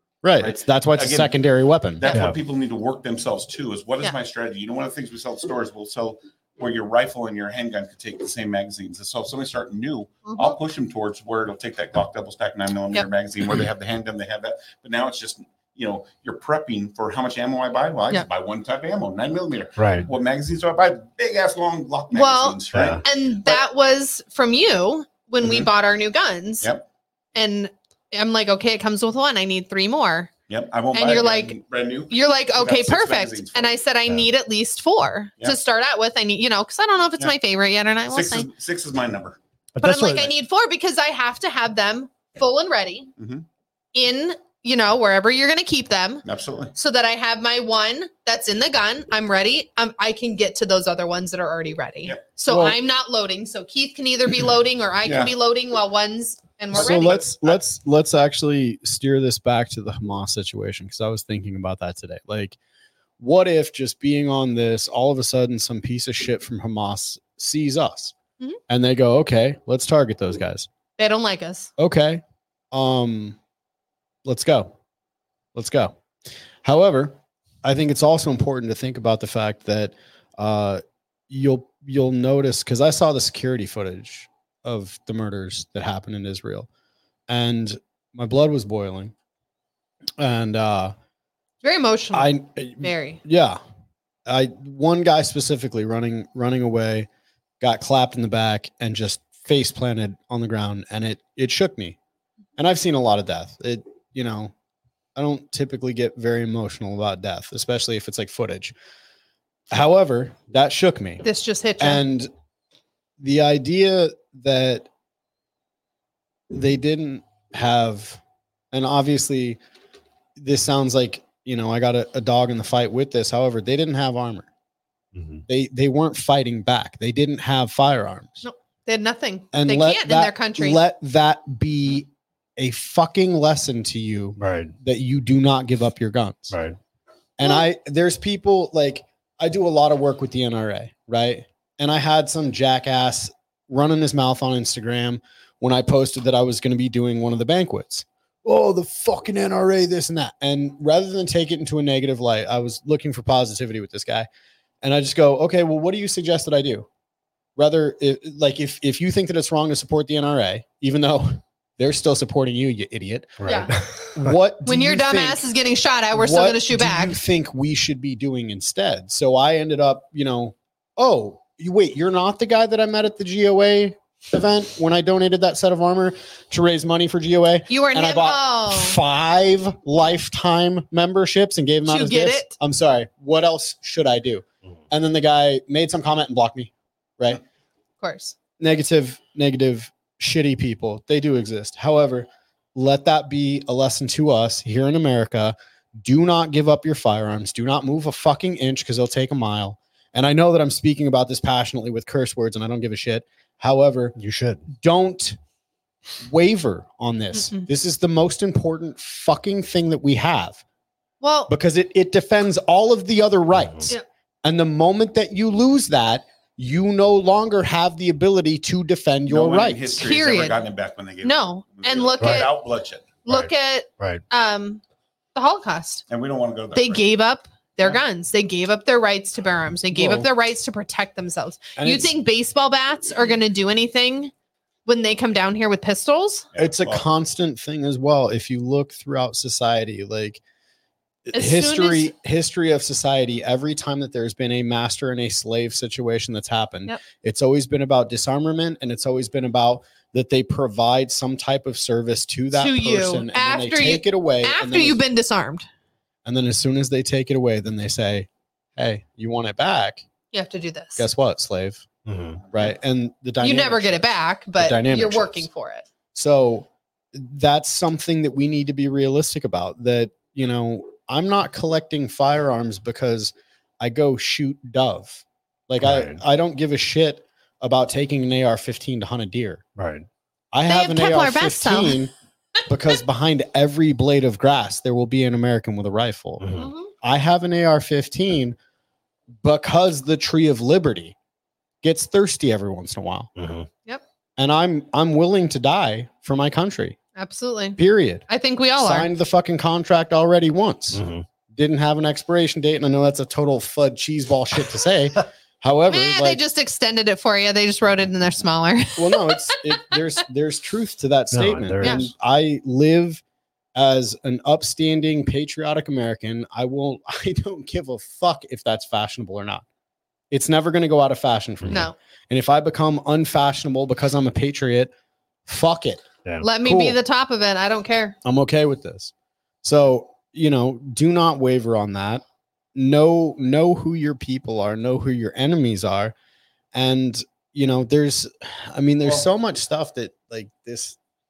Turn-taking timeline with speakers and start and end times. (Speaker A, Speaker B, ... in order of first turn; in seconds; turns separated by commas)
Speaker A: 0.2-2.1, Speaker B: 0.4-1.4, Speaker B: 2.0-23.6, Speaker C: 2.1-2.4, Speaker D: 10.2-10.6, Speaker C: 19.8-20.1, Speaker D: 22.1-26.7, Speaker C: 22.7-23.0, Speaker B: 25.4-25.7, Speaker D: 27.4-30.3, Speaker B: 30.5-33.8, Speaker D: 30.9-31.6, Speaker D: 32.1-38.5, Speaker B: 38.1-39.4, Speaker C: 39.8-40.3, Speaker D: 39.8-43.1, Speaker B: 43.2-43.5, Speaker D: 44.0-46.2, Speaker B: 46.2-46.7, Speaker D: 46.8-57.2, Speaker A: 52.5-52.8, Speaker B: 55.0-55.3, Speaker B: 56.7-57.6, Speaker A: 56.7-62.6, Speaker A: 63.2-68.1, Speaker A: 68.7-70.7, Speaker D: 71.0-71.7, Speaker A: 71.8-73.4, Speaker A: 74.2-74.7, Speaker A: 75.5-76.0, Speaker A: 76.6-86.7, Speaker A: 87.3-89.1, Speaker A: 90.2-90.9, Speaker D: 91.6-93.2, Speaker A: 92.1-93.6, Speaker A: 94.3-97.1, Speaker A: 97.6-102.0, Speaker A: 102.6-104.5, Speaker A: 105.2-108.8, Speaker A: 109.7-111.2, Speaker D: 111.2-112.0, Speaker A: 111.8-112.3, Speaker A: 113.2-114.9, Speaker A: 116.5-118.2, Speaker A: 118.7-119.6, Speaker A: 120.4-124.5, Speaker C: 125.2-125.4, Speaker A: 125.5-128.4, Speaker D: 128.4-130.8, Speaker A: 129.5-136.6, Speaker C: 134.4-134.7, Speaker C: 136.5-136.8, Speaker A: 137.4-154.3, Speaker A: 154.8-156.9, Speaker A: 157.6-163.5, Speaker C: 163.4-164.3, Speaker D: 163.4-163.7, Speaker A: 164.2-165.4, Speaker D: 164.7-167.2, Speaker A: 166.1-187.4, Speaker D: 177.7-179.0, Speaker D: 181.9-182.6, Speaker D: 188.0-188.4, Speaker A: 188.6-204.2, Speaker C: 204.2-204.7, Speaker A: 204.7-205.4, Speaker A: 206.2-210.6, Speaker D: 207.3-207.7, Speaker D: 211.2-211.5, Speaker A: 211.5-220.0, Speaker C: 213.5-213.9, Speaker B: 219.3-223.2, Speaker D: 220.0-220.6, Speaker D: 221.2-222.5, Speaker C: 222.2-222.5, Speaker D: 223.2-224.8, Speaker C: 223.3-224.2, Speaker D: 225.3-226.0, Speaker B: 226.1-227.0, Speaker D: 226.8-234.3, Speaker A: 229.9-230.3, Speaker A: 231.8-232.1, Speaker D: 234.9-236.4, Speaker B: 236.5-237.1, Speaker A: 236.6-240.4, Speaker A: 241.3-255.0, Speaker D: 241.3-242.1, Speaker D: 252.5-255.7, Speaker A: 256.2-260.0, Speaker D: 260.3-261.1, Speaker A: 261.0-261.9, Speaker C: 262.1-262.4, Speaker A: 262.5-264.0, Speaker D: 263.4-265.9, Speaker A: 264.6-265.5, Speaker A: 266.1-279.6, Speaker C: 275.8-276.2, Speaker C: 279.8-280.1, Speaker A: 280.5-282.1, Speaker D: 280.7-282.0, Speaker A: 282.7-286.5, Speaker C: 286.4-286.7, Speaker D: 286.6-286.9, Speaker A: 287.0-288.6, Speaker A: 289.4-291.2, Speaker A: 291.8-293.3, Speaker C: 293.4-293.7, Speaker A: 294.4-297.0, Speaker D: 297.2-299.1, Speaker A: 297.8-298.3, Speaker A: 298.8-306.4, Speaker C: 300.9-301.2, Speaker D: 305.9-310.0, Speaker A: 309.0-313.2, Speaker C: 311.3-312.1, Speaker D: 311.8-312.1, Speaker A: 313.8-319.6, Speaker A: 320.3-324.9, Speaker D: 321.7-322.0, Speaker A: 325.5-326.1, Speaker D: 326.4-328.2, Speaker A: 326.6-327.0, Speaker A: 328.2-329.1, Speaker A: 329.6-332.2, Speaker A: 332.8-336.1, Speaker A: 336.7-341.0